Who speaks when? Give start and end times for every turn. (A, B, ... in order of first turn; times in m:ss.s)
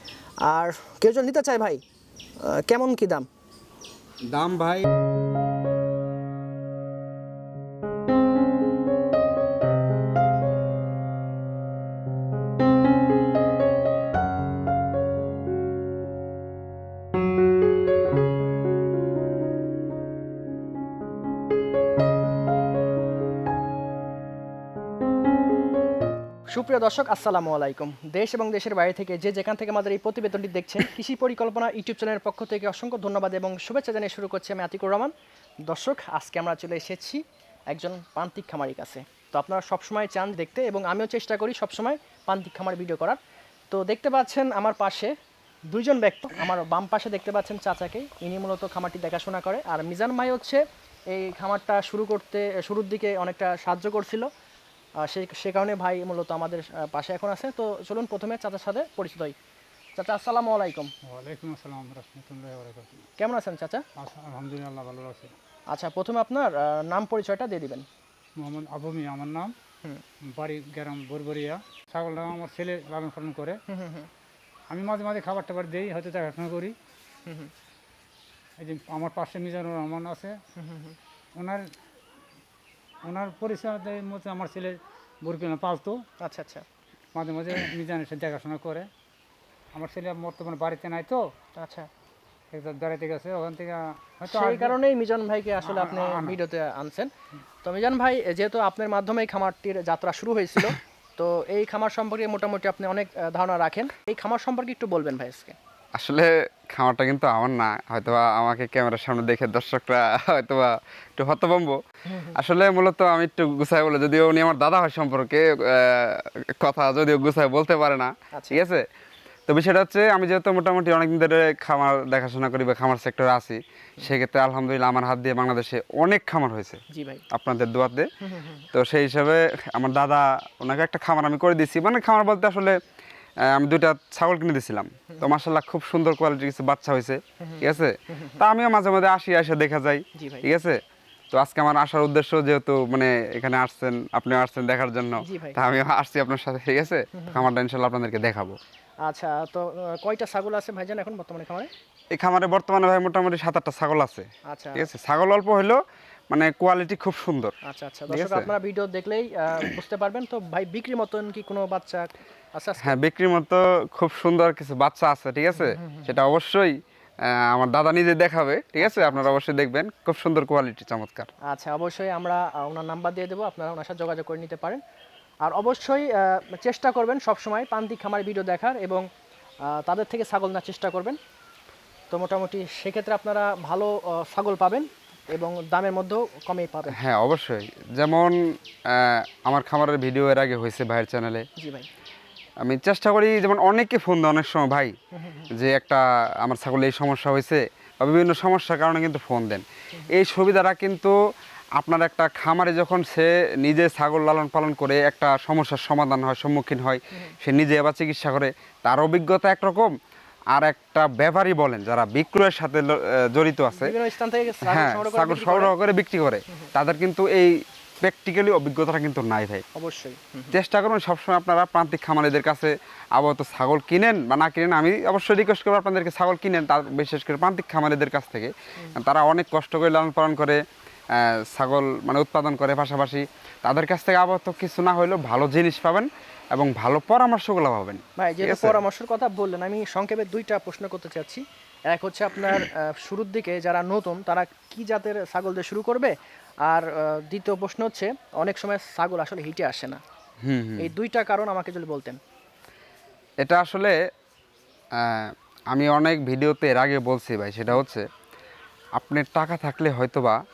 0:00.5-0:01.8 A
0:02.5-0:03.3 A
0:04.3-0:04.8 B
0:26.5-0:35.1 A
0:35.7-0:43.2 A
0:43.7-0:45.1 A
0:45.7-0:50.6 A
0:51.1-0:54.3 A
0:55.0-0:59.4 A
1:00.0-1:00.9 A
1:01.1-1:03.1 C
1:03.2-1:03.8 A
1:04.0-1:05.3 C
1:05.7-1:07.9 A
1:08.4-1:09.5 C
1:10.3-1:13.6 C
1:13.7-1:14.1 A
1:14.7-1:16.8 C
1:17.3-1:17.5 A
1:18.6-1:20.4 C
1:20.6-1:21.0 A
1:21.4-1:21.7 C
1:23.0-1:26.0 C
1:26.2-1:26.7 A
1:27.2-1:28.9 C
1:29.7-1:31.2 C
1:31.6-1:31.9 A
1:32.5-1:34.8 C
1:34.3-1:37.1 A
1:35.6-1:36.4 C
1:37.6-1:45.6 A
1:46.0-1:51.8 B
1:52.3-1:58.8 B
1:58.3-1:58.6 A
1:59.5-2:08.1 B
2:06.9-2:07.2 A
2:08.3-2:08.6 A
2:08.7-2:12.8 B
2:13.5-2:20.8 B
2:20.2-2:20.5 A
2:21.3-2:28.6 B
2:25.2-2:25.6 A
2:27.1-2:27.4 A
2:29.0-2:31.7 A
2:32.2-2:35.8 B
2:34.5-2:34.9 A
2:36.3-2:37.5 B
2:37.6-2:43.0 A
2:38.1-2:38.5 B
2:42.8-2:51.3 B
2:45.7-2:46.1 A
2:48.8-2:49.3 A
2:51.5-2:54.8 A
2:55.4-2:59.0 A
2:59.7-3:01.2 A
3:02.1-3:07.0 A
3:06.9-3:08.3 B
3:08.9-3:11.4 B
3:11.6-3:11.9 A
3:12.6-3:14.9 B
3:15.2-3:15.5 A
3:15.5-3:21.1 B
3:21.8-3:29.9 B
3:30.5-3:34.0 B
3:33.7-3:35.7 A
3:34.6-3:39.6 B
3:39.8-3:40.6 A
3:40.5-3:50.6 B
3:51.2-3:58.8 B
3:58.2-4:06.1 A
4:06.7-4:10.0 A
4:10.4-4:10.9 B
4:10.8-4:12.2 A
4:13.4-4:14.0 B
4:15.0-4:18.0 B
4:19.0-4:20.4 B